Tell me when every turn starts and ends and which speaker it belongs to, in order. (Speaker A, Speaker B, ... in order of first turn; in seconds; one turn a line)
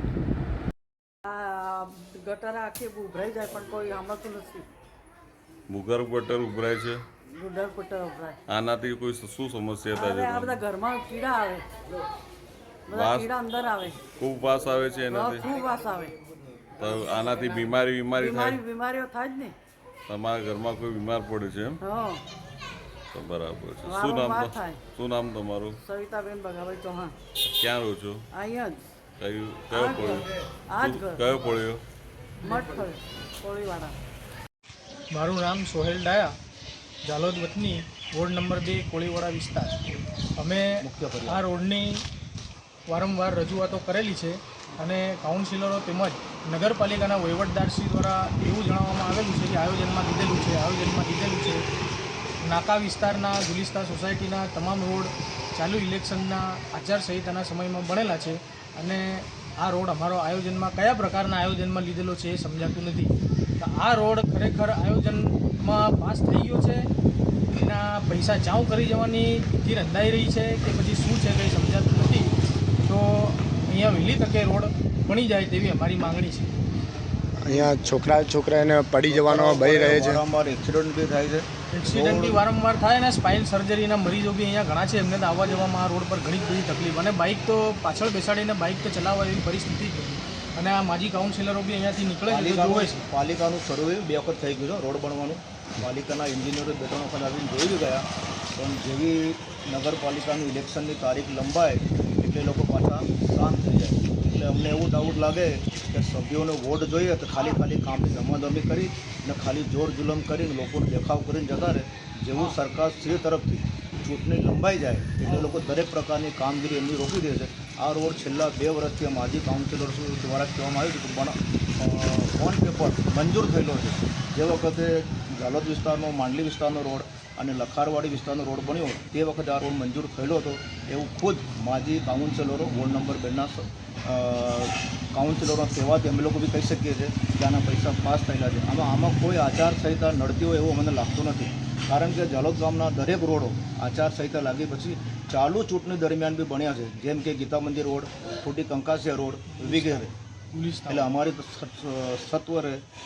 Speaker A: 1.2-4.7
Speaker B: 5.7-7.0
Speaker A: 7.3-8.4
Speaker B: 8.5-10.6
Speaker A: 9.9-11.6
Speaker A: 12.9-14.0
Speaker B: 12.9-13.3
Speaker B: 14.0-15.5
Speaker A: 15.1-16.1
Speaker B: 16.8-18.6
Speaker A: 18.1-19.5
Speaker B: 20.1-21.8
Speaker A: 21.8-22.2
Speaker B: 23.1-25.8
Speaker A: 23.8-24.8
Speaker A: 25.8-27.1
Speaker B: 27.5-28.2
Speaker A: 28.3-28.8
Speaker B: 29.2-31.8
Speaker A: 29.7-31.2
Speaker A: 32.4-34.0
Speaker C: 35.1-36.3
Speaker C: 37.1-39.8
Speaker C: 40.4-42.0
Speaker D: 40.8-41.4
Speaker C: 42.9-51.6
Speaker C: 52.4-66.8
Speaker C: 67.5-72.3
Speaker C: 72.8-76.5
Speaker E: 77.4-80.2
Speaker D: 77.4-77.7
Speaker D: 79.0-82.4
Speaker C: 81.7-93.0
Speaker D: 92.3-150.1
Speaker C: 149.6-151.1
Speaker D: 150.9-152.8